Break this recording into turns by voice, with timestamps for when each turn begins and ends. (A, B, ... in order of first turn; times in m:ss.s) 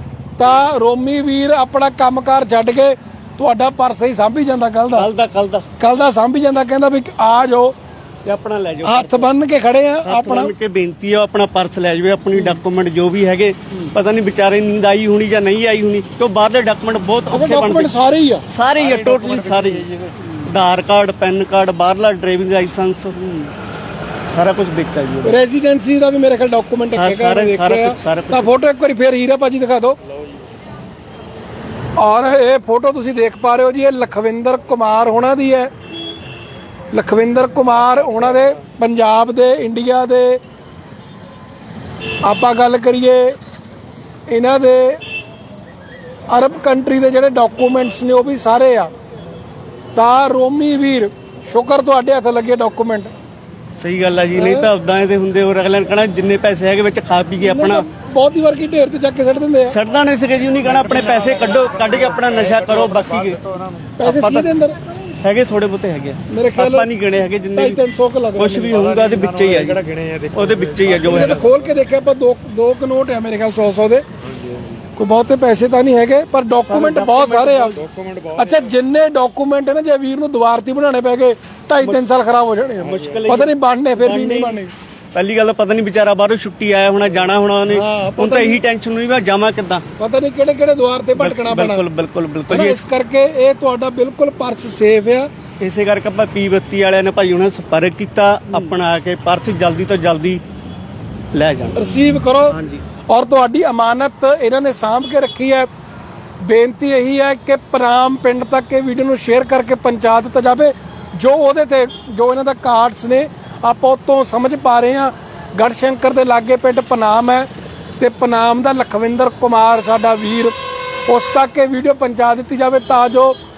0:00.4-0:05.1 A
0:04.9-0:05.6 B
0:05.8-0:07.7 A
0:08.2-0:09.3 B
0:08.8-0:10.5 A
0:10.0-0:17.9 B
0:17.3-0:18.4 A
0:18.4-0:19.8 B
0:18.8-0:20.3 C
0:20.4-0:23.2 B
0:23.2-0:23.5 A
0:24.3-0:25.4 B
0:25.2-0:30.0 A
0:26.8-0:28.5 B
0:32.0-0:35.7 A
0:36.9-0:40.4 A
0:38.0-0:38.5 C
0:42.2-0:43.4 A
0:44.3-0:45.0 A
0:46.3-0:48.9 A
0:50.0-0:53.1 A
0:53.8-0:57.8 B
0:54.4-0:54.7 A
0:57.4-0:59.8 A
0:59.7-1:03.4 B
1:00.6-1:03.9 C
1:04.0-1:04.9 A
1:04.0-1:04.5 B
1:05.2-1:07.8 B
1:06.3-1:06.9 A
1:07.6-1:08.7 A
1:08.4-1:09.8 B
1:08.7-1:11.7 C
1:10.3-1:11.4 B
1:11.0-1:14.0 A
1:14.2-1:14.8 C
1:15.0-1:17.7 A
1:16.7-1:17.8 B
1:17.7-1:18.7 C
1:18.4-1:24.7 A
1:22.8-1:23.3 C
1:22.8-1:24.6 B
1:25.1-1:29.8 B
1:27.7-1:28.6 A
1:30.0-1:31.8 A
1:31.2-1:32.8 B
1:32.5-1:35.3 A
1:35.6-1:40.4 B
1:38.5-1:38.7 A
1:41.3-1:42.8 B
1:41.8-1:45.7 A
1:46.4-2:00.5 A
2:01.1-2:03.4 A